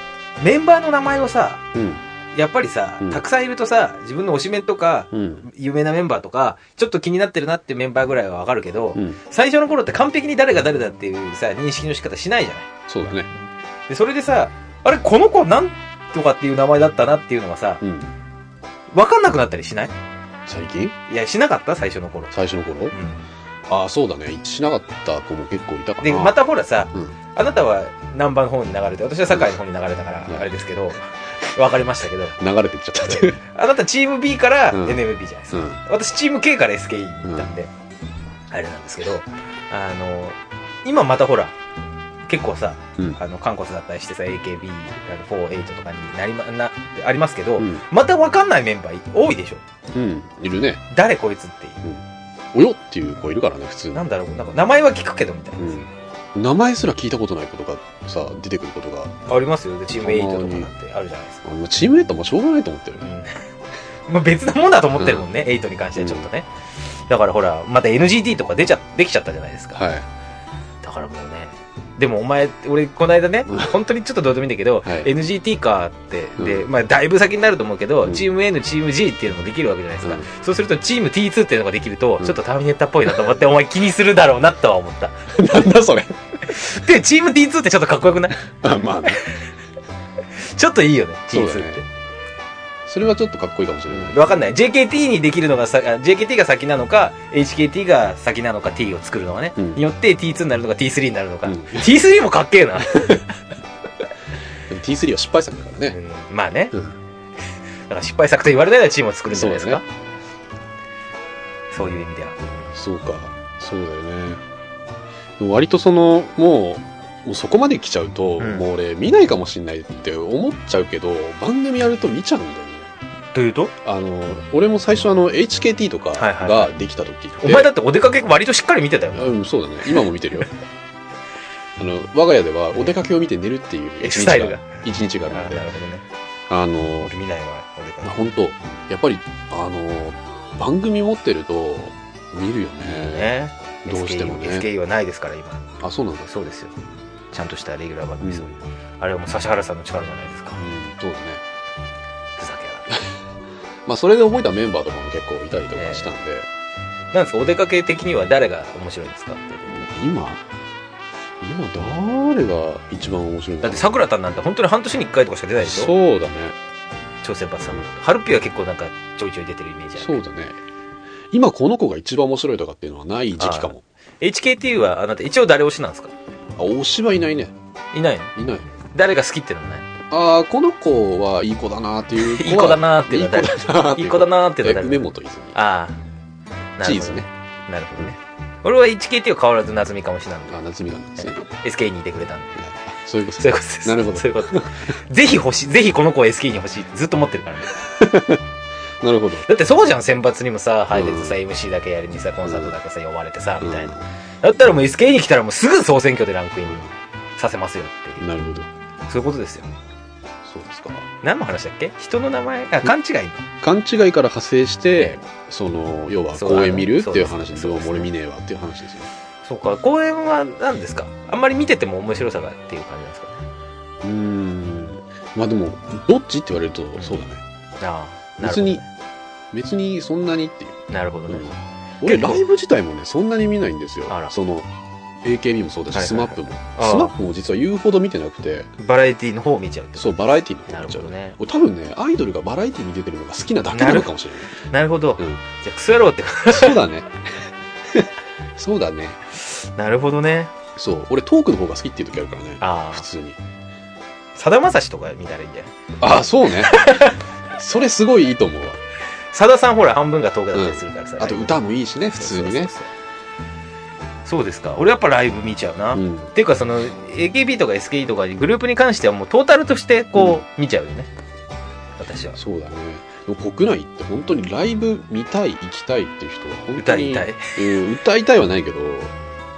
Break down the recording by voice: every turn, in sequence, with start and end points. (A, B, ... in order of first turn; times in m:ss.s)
0:00.4-0:01.6 A
0:01.7-0:02.0 B
0:02.3-0:12.7 A
0:05.1-0:05.4 B
0:12.9-0:13.3 B
0:13.3-0:17.8 A
0:17.8-0:18.1 B
0:18.9-0:19.9 A
0:20.5-0:21.0 B
0:21.1-0:22.3 A
0:22.3-0:23.0 B
0:22.9-0:23.2 A
0:23.7-0:26.4 B
0:26.0-0:32.4 A
0:32.4-0:33.4 B
0:33.0-0:37.7 A
0:34.7-0:35.8 B
0:37.2-0:37.5 B
0:38.5-0:41.6 A
0:42.3-0:49.6 A
0:47.6-0:47.8 B
0:49.9-0:50.8 B
0:50.9-0:51.8 A
0:52.5-0:54.0 B
0:53.9-0:55.9 A
0:55.6-0:59.1 B
0:59.3-1:01.4 A
1:00.0-1:00.7 B
1:01.4-1:03.1 B
1:03.0-1:03.4 A
1:04.1-1:06.5 A
1:05.0-1:05.3 B
1:06.0-1:06.3 B
1:07.1-1:09.8 A
1:09.8-1:10.1 B
1:10.8-1:25.4 A
1:14.8-1:15.1 B
1:16.4-1:16.7 B
1:25.3-1:26.2 B
1:26.5-1:28.5 A
1:28.5-1:29.2 B
1:29.1-1:29.4 A
1:30.4-1:31.9 A
1:31.3-1:31.8 B
1:32.9-1:34.2 B
1:33.9-1:43.4 A
1:39.6-1:39.8 B
1:41.4-1:42.0 B
1:42.9-1:43.2 B
1:44.7-1:46.0 B
1:45.9-1:46.8 A
1:47.9-1:49.8 A
1:49.3-1:49.8 B
1:51.7-1:52.4 A
1:52.7-1:54.4 B
1:55.4-2:02.9 B
1:58.4-1:58.7 A
2:03.3-2:03.7 A
2:03.8-2:07.7 B
2:06.2-2:06.7 A
2:07.4-2:09.4 A
2:09.1-2:10.5 B
2:11.8-2:15.7 B
2:14.0-2:14.7 A
2:15.3-2:16.0 A
2:16.5-2:17.1 B
2:17.0-2:18.2 A
2:18.0-2:23.3 B
2:22.8-2:25.7 A
2:23.9-2:24.7 B
2:25.8-2:26.3 B
2:26.2-2:26.8 A
2:27.3-2:30.6 A
2:28.2-2:28.5 B
2:30.6-2:31.4 B
2:32.4-2:32.9 A
2:33.9-2:36.5 B
2:35.8-2:36.1 A
2:37.1-2:39.7 A
2:39.7-2:40.4 B
2:41.4-2:44.0 B
2:43.6-2:45.9 A
2:45.6-2:46.6 B
2:47.2-2:50.2 A
2:50.0-2:50.6 B
2:51.3-2:53.8 B
2:53.4-2:56.1 A
2:56.6-2:57.5 B
2:57.9-2:59.9 A
2:58.4-2:58.7 B
3:00.1-3:05.6 B
3:02.2-3:05.0 A
3:05.5-3:06.0 A
3:06.8-3:10.6 A
3:06.8-3:07.3 B
3:10.5-3:11.4 B
3:11.2-3:12.7 A
3:12.6-3:14.8 B
3:13.4-3:17.9 A
3:18.0-3:18.4 B
3:19.0-3:19.5 B
3:19.5-3:26.9 A
3:20.9-3:21.4 B
3:22.4-3:22.7 B
3:23.6-3:24.0 B
3:27.4-3:28.2 A
3:28.2-3:28.7 B
3:29.1-3:29.8 A
3:30.4-3:31.1 B
3:31.2-3:33.4 A
3:33.6-3:39.1 B
3:34.9-3:35.2 A
3:36.3-3:38.1 A
3:39.4-3:43.4 A
3:44.0-3:47.4 B
3:47.8-3:48.9 A
3:48.4-3:48.8 B
3:49.5-3:54.7 B
3:50.9-3:51.5 A
3:52.0-3:52.4 A
3:55.2-3:58.7 B
3:55.9-3:57.1 A
3:58.8-4:01.4 A
4:00.0-4:04.5 B
4:03.7-4:06.8 A
4:06.5-4:09.2 B
4:09.4-4:10.5 A
4:10.8-4:13.4 B
4:12.6-4:13.1 A
4:14.4-4:15.7 A
4:16.0-4:16.8 B
4:16.6-4:17.2 A
4:17.6-4:18.8 B
4:19.3-4:21.6 A
4:20.5-4:22.7 B
4:22.1-4:22.9 A
4:24.2-4:31.1 A
4:25.9-4:26.3 B
4:30.2-4:30.4 B
4:32.0-4:32.4 A
4:32.4-4:39.1 B
4:36.8-4:37.8 A